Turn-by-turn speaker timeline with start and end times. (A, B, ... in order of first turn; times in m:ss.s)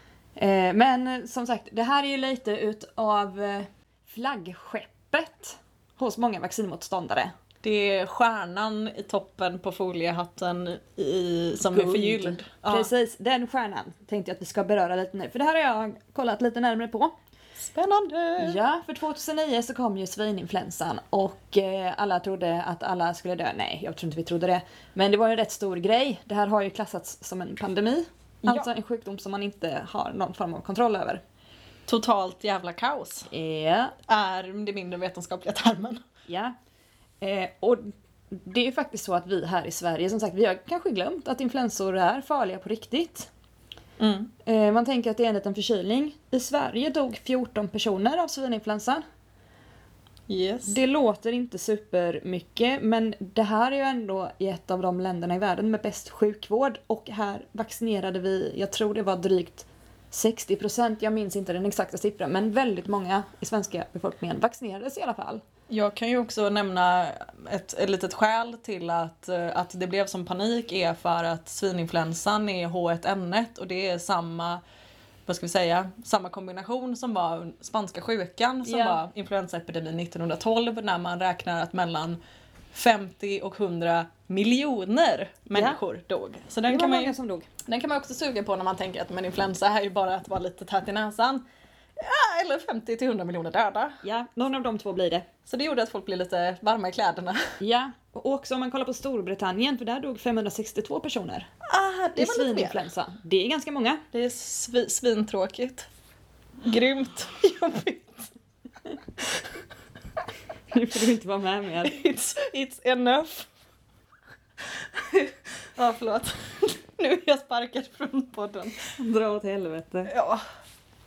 0:00.4-0:07.3 A
0:07.6-0:12.9 B
0:11.7-0:17.1 A
0:17.6-0:18.6 B
0:18.4-0:31.2 A
0:28.4-0:28.7 B
0:31.8-0:33.3 B
0:33.3-0:34.0 A
0:34.1-0:36.0 B
0:36.3-0:36.6 A
0:37.2-0:43.3 A
0:44.0-0:44.3 B
0:44.4-0:49.0 A
0:50.3-0:50.8 B
0:50.7-1:05.4 A
1:05.7-1:14.6 B
1:15.2-1:22.2 B
1:18.6-1:19.0 A
1:22.7-1:27.1 B
1:25.5-1:25.8 A
1:26.7-1:27.5 A
1:27.6-1:31.4 B
1:32.0-1:34.0 B
1:34.0-1:35.3 A
1:35.4-1:37.4 B
1:37.6-1:41.5 A
1:41.7-1:42.8 B
1:42.2-1:44.0 A
1:44.1-1:45.9 B
1:46.6-1:48.3 B
1:50.7-1:52.0 A
1:51.8-1:53.5 B
1:54.8-1:58.9 B
1:59.0-2:00.1 A
2:00.1-2:00.4 B